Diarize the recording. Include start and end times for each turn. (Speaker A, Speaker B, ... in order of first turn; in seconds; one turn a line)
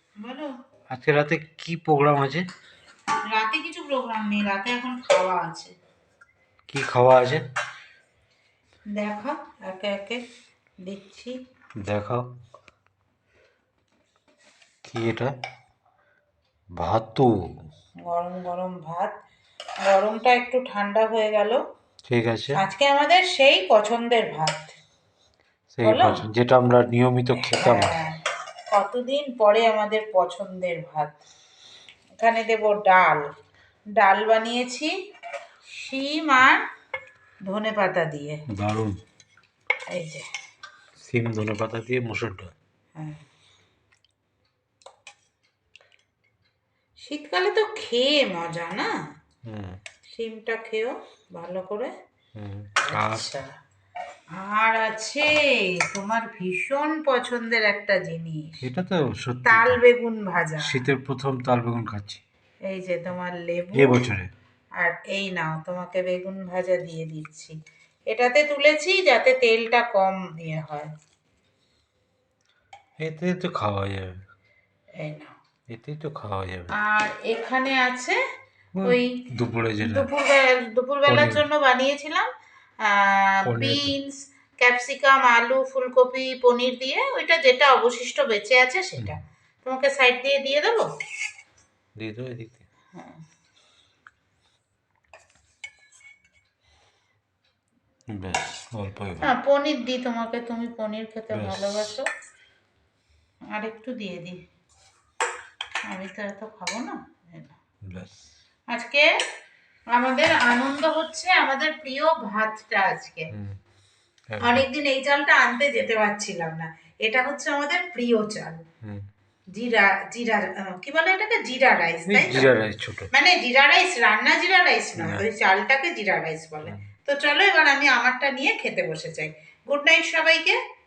Speaker A: 0.2-0.5
Speaker B: 0.9-2.4
Speaker A: 3.3-5.7
Speaker B: 6.7-7.4
Speaker A: 8.9-10.2
Speaker A: 10.8-11.3
Speaker B: 11.8-12.2
Speaker B: 14.8-15.3
Speaker B: 16.8-17.3
Speaker A: 18.1-19.1
Speaker A: 19.9-21.6
Speaker B: 22.1-22.6
Speaker A: 22.5-24.7
Speaker B: 25.7-27.9
Speaker A: 25.8-26.2
Speaker A: 27.5-28.2
Speaker A: 28.7-31.2
Speaker A: 32.2-33.2
Speaker A: 34.0-34.9
Speaker A: 35.8-36.6
Speaker A: 37.5-38.4
Speaker B: 38.5-39.0
Speaker A: 39.9-40.2
Speaker B: 41.0-42.5
Speaker A: 47.0-48.9
Speaker B: 49.5-49.8
Speaker A: 50.1-51.9
Speaker B: 52.4-53.3
Speaker A: 52.9-53.5
Speaker A: 54.4-55.3
Speaker A: 55.9-58.6
Speaker B: 58.6-59.8
Speaker A: 59.5-60.8
Speaker B: 60.6-62.2
Speaker A: 62.7-64.0
Speaker B: 63.7-64.3
Speaker A: 64.8-67.5
Speaker A: 68.1-70.9
Speaker B: 73.0-74.1
Speaker A: 75.0-75.3
Speaker B: 75.7-76.7
Speaker A: 76.8-78.2
Speaker B: 78.7-80.1
Speaker A: 78.8-79.1
Speaker A: 79.8-82.3
Speaker B: 81.0-81.4
Speaker A: 82.9-90.9
Speaker B: 83.5-83.9
Speaker B: 92.0-92.6
Speaker B: 98.1-99.3
Speaker A: 99.2-102.1
Speaker B: 101.3-101.9
Speaker A: 103.5-104.4
Speaker A: 105.9-107.5
Speaker B: 107.9-108.2
Speaker A: 108.7-109.0
Speaker A: 109.9-113.3
Speaker B: 114.3-114.6
Speaker A: 114.4-118.6
Speaker A: 119.5-122.5
Speaker B: 122.1-123.1
Speaker A: 123.1-130.6
Speaker B: 125.0-125.2